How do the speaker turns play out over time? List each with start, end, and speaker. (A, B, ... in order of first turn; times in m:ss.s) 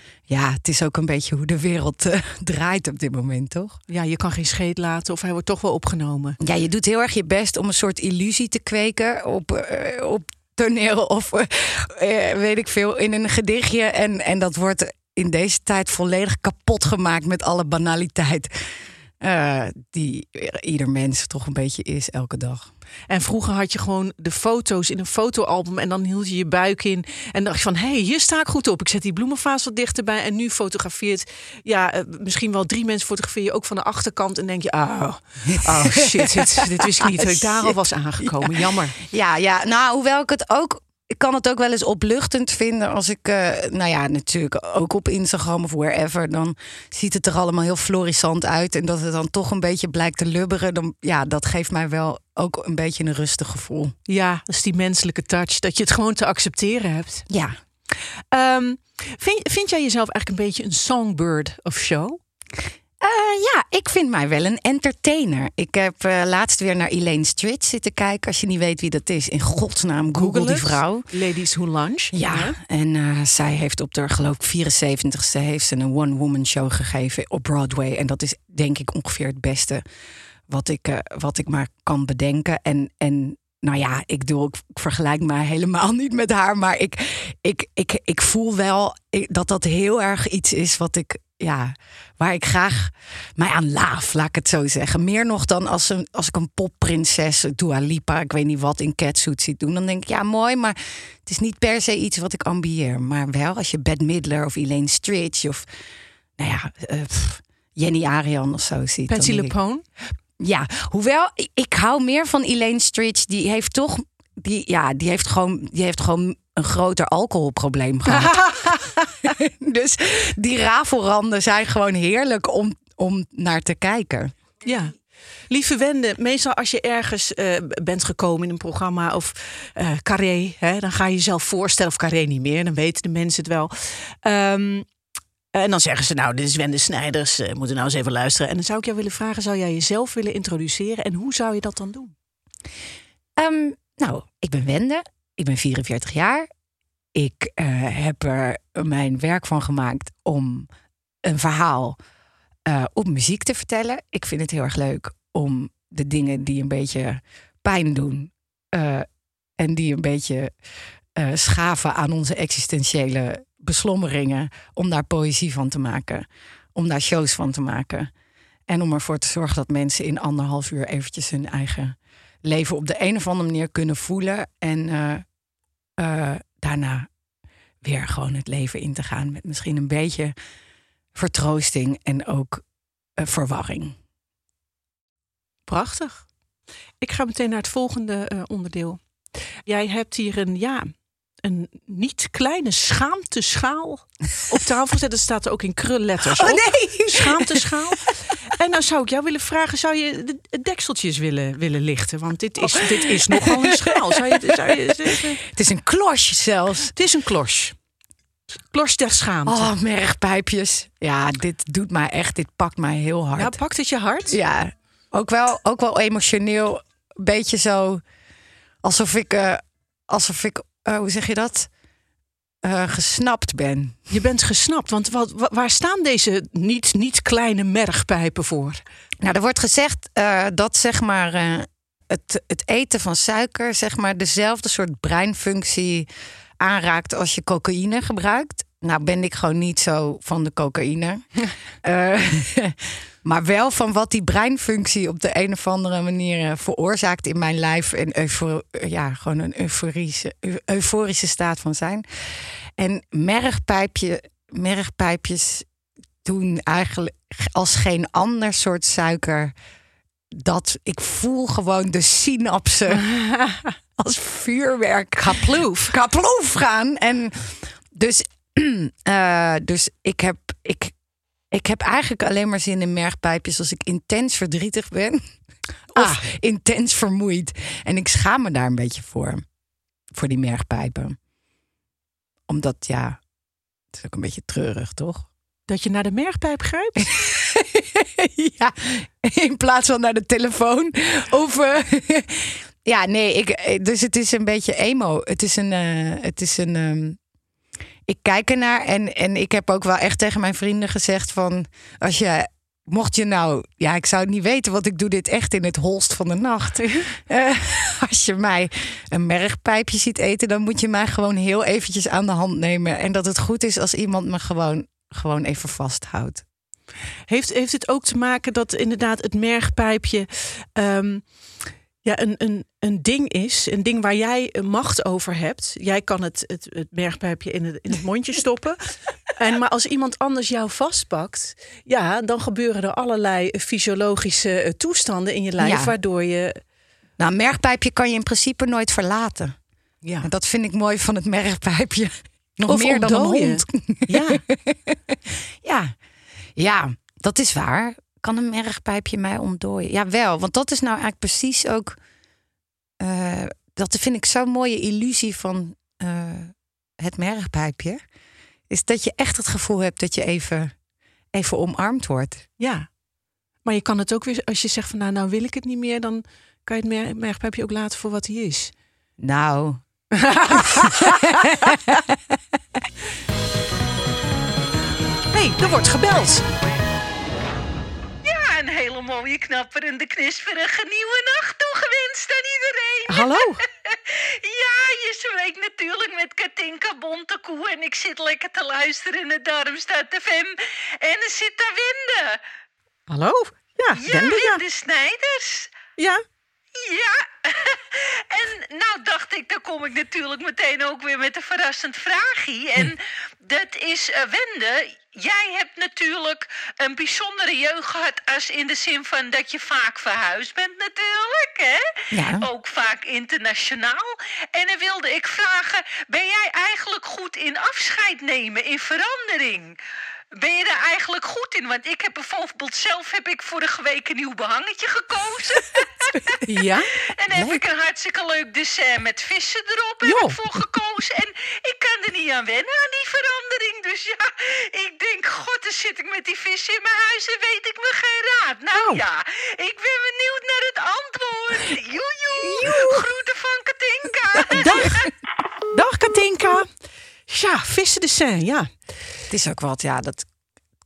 0:00.3-0:03.8 A
0:03.9-0:06.4 B
0:06.4-0:18.5 A
0:19.2-0:22.7 A
0:23.1-0:39.0 B
0:35.5-0:54.0 A
0:54.1-0:57.3 B
0:57.3-0:57.6 A
0:57.9-1:02.2 B
1:03.0-1:11.1 A
1:10.2-1:12.6 B
1:12.1-1:19.8 A
1:20.5-1:45.7 A
1:46.4-1:49.6 A
1:49.1-1:49.8 B
1:50.4-2:04.4 A
1:58.1-1:58.8 B
2:04.6-2:05.0 B
2:05.5-2:14.9 B
2:15.5-2:22.1 B
2:23.4-2:26.5 A
2:27.1-2:30.7 A
2:31.2-2:32.0 A
2:32.7-2:40.5 A
2:41.2-2:48.1 A
2:48.7-2:55.2 A
2:56.0-2:57.1 A
2:57.8-3:00.4 A
3:01.2-3:02.6 A
3:03.2-3:04.0 A
3:05.7-3:06.3 B
3:07.0-3:09.0 B
3:09.7-3:10.9 B
3:11.4-3:25.4 B
3:16.2-3:17.7 A
3:22.6-3:26.9 A
3:26.9-3:27.8 B
3:28.7-3:29.7 B
3:29.5-3:33.6 A
3:33.4-3:34.4 B
3:34.3-3:38.0 A
3:38.8-3:41.7 A
3:42.6-3:44.1 A
3:44.1-3:48.8 B
3:49.2-3:56.1 A
3:56.6-4:01.3 A
4:01.8-4:15.7 A
4:16.2-4:19.5 A
4:20.3-4:23.1 A
4:22.9-4:23.7 B
4:24.0-4:30.9 A
4:25.2-4:25.9 B
4:31.5-4:35.2 A
4:35.9-4:39.4 A
4:36.0-4:36.2 B
4:40.1-4:41.2 A
4:42.5-4:43.2 A
4:43.9-4:45.3 A
4:45.7-4:47.2 B
4:47.0-4:57.2 A
4:58.1-5:16.4 A
5:06.8-5:07.1 B
5:17.3-5:21.4 B
5:22.0-5:36.6 B
5:35.6-5:36.0 A
5:37.2-5:39.6 A
5:40.0-5:40.3 B
5:40.2-5:46.0 A
5:42.7-5:44.4 B
5:46.6-5:52.0 A
5:53.0-5:58.0 A
5:58.7-6:00.8 A
6:01.3-6:02.5 A
6:02.6-6:02.9 B
6:03.6-6:08.7 B
6:09.2-6:09.8 A
6:10.1-6:11.7 B
6:10.5-6:12.2 A
6:15.3-6:16.4 B
6:18.2-6:32.4 C
6:23.1-6:23.6 B
6:33.1-6:34.6 B
6:34.0-6:35.8 C
6:36.0-6:36.2 B
6:36.8-6:59.8 C
6:52.1-6:52.5 A
7:00.4-7:06.4 C
7:06.4-7:06.9 B
7:07.2-7:25.1 C
7:07.4-7:07.6 A
7:10.0-7:10.4 B
7:18.8-7:19.0 B
7:22.6-7:23.0 B
7:24.5-7:25.0 B
7:25.7-7:26.7 B
7:27.3-7:28.7 B
7:29.3-7:30.3 A